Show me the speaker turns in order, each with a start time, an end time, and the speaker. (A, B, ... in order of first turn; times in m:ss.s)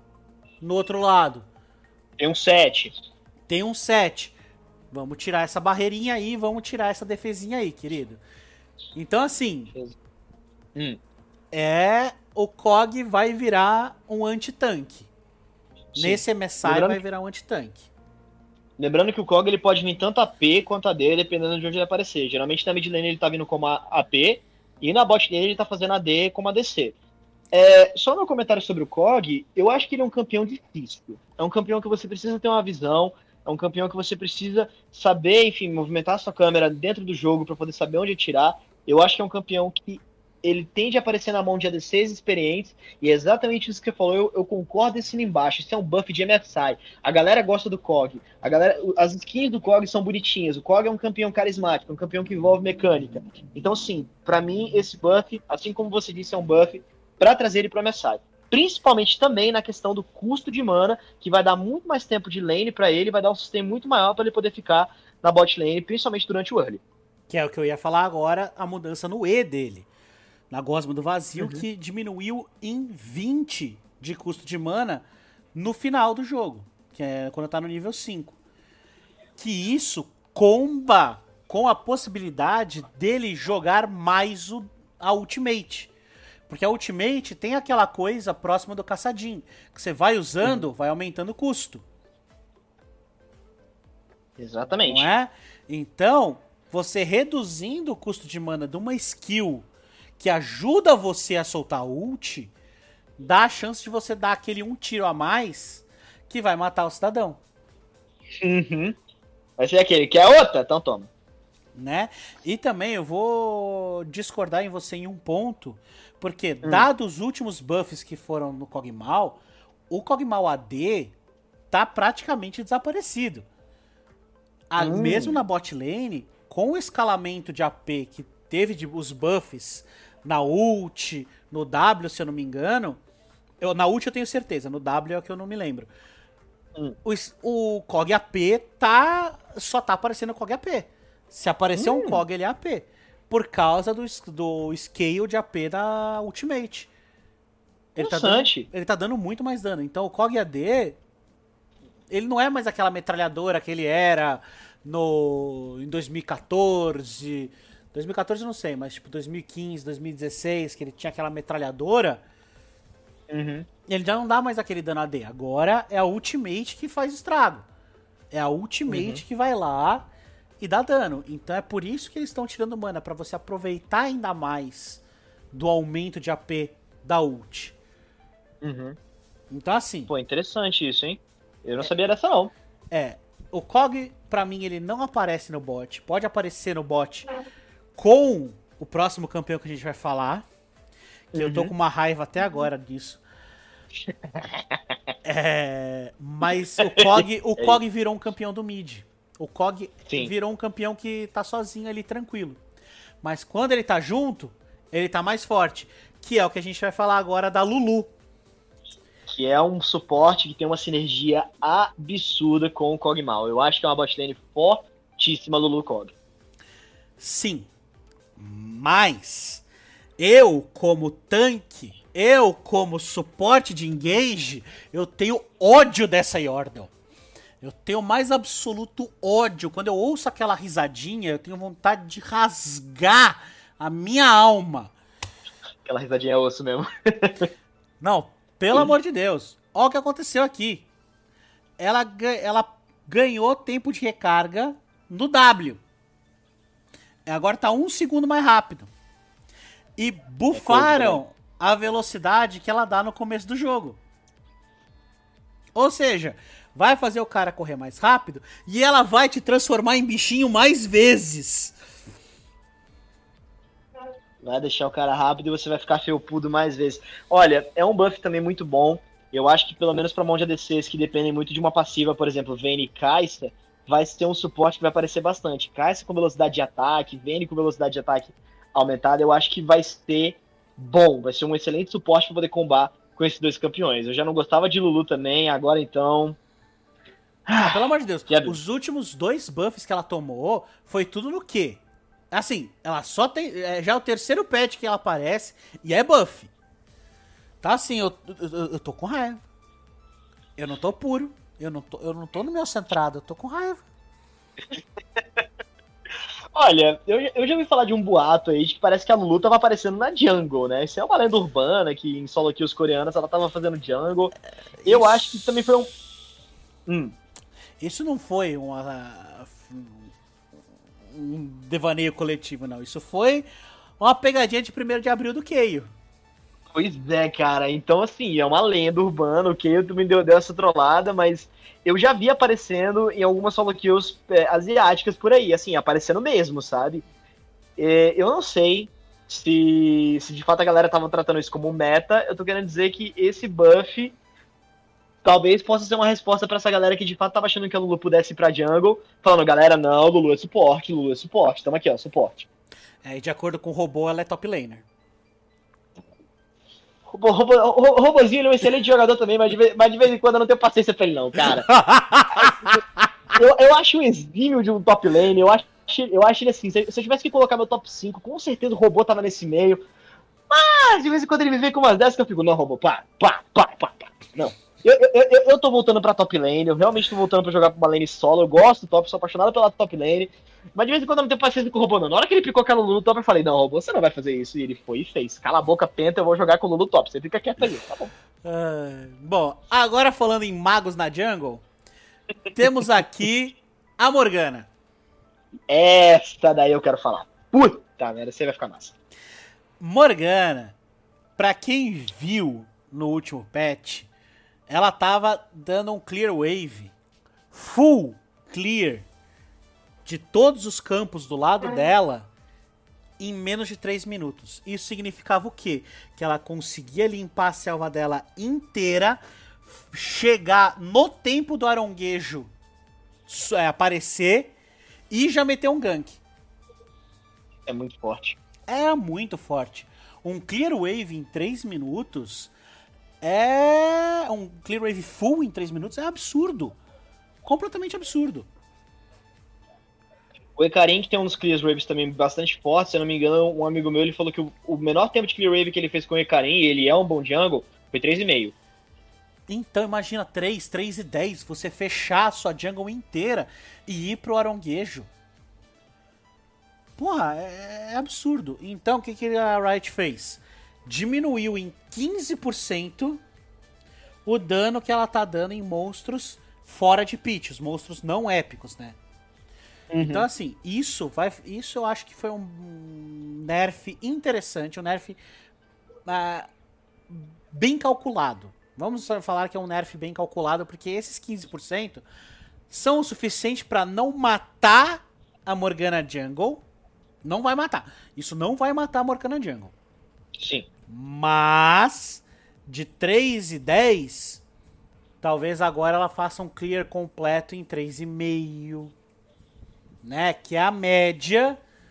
0:00.6-0:01.4 A
0:02.2-0:03.0 B
0:03.5-0:04.3 A
0:04.9-0:08.2 A
0:08.9-0:09.7 A
0:11.5-0:15.1 A
0:15.9-0:17.0 B
0:16.0-0:17.9 A
0:18.8-0:26.9 B
0:27.5-1:06.8 B
1:07.3-1:09.9 A
1:10.5-1:18.4 A
1:19.4-1:25.9 A
1:26.5-1:31.8 A
1:34.4-1:35.1 B
1:34.8-1:39.7 A
1:40.2-1:42.5 A
1:43.2-1:47.4 A
1:48.4-1:49.0 B
1:49.6-1:51.1 B
1:51.7-2:01.1 A
2:01.7-2:03.5 A
2:04.7-2:13.0 A
2:04.8-2:05.4 B
2:13.6-2:15.9 A
2:17.0-2:26.9 A
2:21.8-2:22.2 B
2:27.9-2:31.0 A
2:28.0-2:28.7 B
2:32.1-2:42.2 A
2:43.3-2:43.7 B
2:43.9-2:47.6 A
2:48.3-2:50.1 A
2:48.9-2:49.2 B
2:50.6-2:57.8 A
2:58.6-2:59.0 B
2:59.5-3:00.1 A
3:00.1-3:02.5 B
3:02.9-3:07.3 A
3:07.9-3:10.4 A
3:11.3-3:11.7 B
3:11.4-3:13.2 A
3:14.1-3:14.8 B
3:15.2-3:22.6 A
3:16.8-3:17.8 B
3:23.2-3:28.1 A
3:29.3-3:36.1 B
3:37.2-3:37.7 A
3:38.4-3:39.6 A
3:40.2-3:46.9 A
3:47.6-3:54.9 A
3:55.8-3:57.5 B
3:58.0-4:00.8 A
4:01.8-4:05.8 A
4:07.2-4:08.9 A
4:10.0-4:14.0 A
4:10.5-4:11.2 B
4:15.7-4:21.8 A
4:24.4-4:46.4 B
4:47.5-4:48.6 B
4:47.5-4:56.5 A
4:57.6-4:59.4 A
5:00.6-5:03.8 A
5:06.5-5:14.3 B
5:14.8-5:15.7 A
5:14.8-5:15.9 B
5:16.9-5:17.2 B
5:17.8-5:20.1 A
5:21.1-5:23.4 A
5:24.0-5:25.9 A
5:26.7-5:37.0 B
5:37.8-5:44.2 B
5:45.2-5:52.5 B
5:53.0-5:54.8 A
5:57.1-6:01.7 B
6:01.6-6:03.1 A
6:02.4-6:02.8 B
6:03.3-6:09.8 B
6:10.5-6:28.1 B
6:28.4-6:31.6 A
6:32.5-6:34.7 A
6:35.7-6:38.9 B
6:39.8-6:40.8 A
6:41.4-6:44.1 A
6:44.7-6:46.9 A
6:47.5-6:49.0 A
6:50.0-6:52.3 A
6:53.2-7:02.5 A
7:03.3-7:04.5 A
7:05.1-7:06.2 A
7:07.7-7:08.4 B
7:08.7-7:12.5 A
7:13.2-7:16.8 A
7:17.4-7:18.5 A
7:20.6-7:28.5 B
7:29.5-7:35.1 A
7:37.0-7:43.2 A
7:44.2-7:49.0 A
7:49.9-7:50.2 B
7:50.0-7:55.2 A
7:56.0-7:56.5 A
7:57.1-8:02.0 A
8:02.7-8:06.6 A
8:07.2-8:09.7 A
8:10.4-8:10.7 B
8:10.9-8:14.4 A
8:15.2-8:18.9 A
8:20.0-8:21.6 A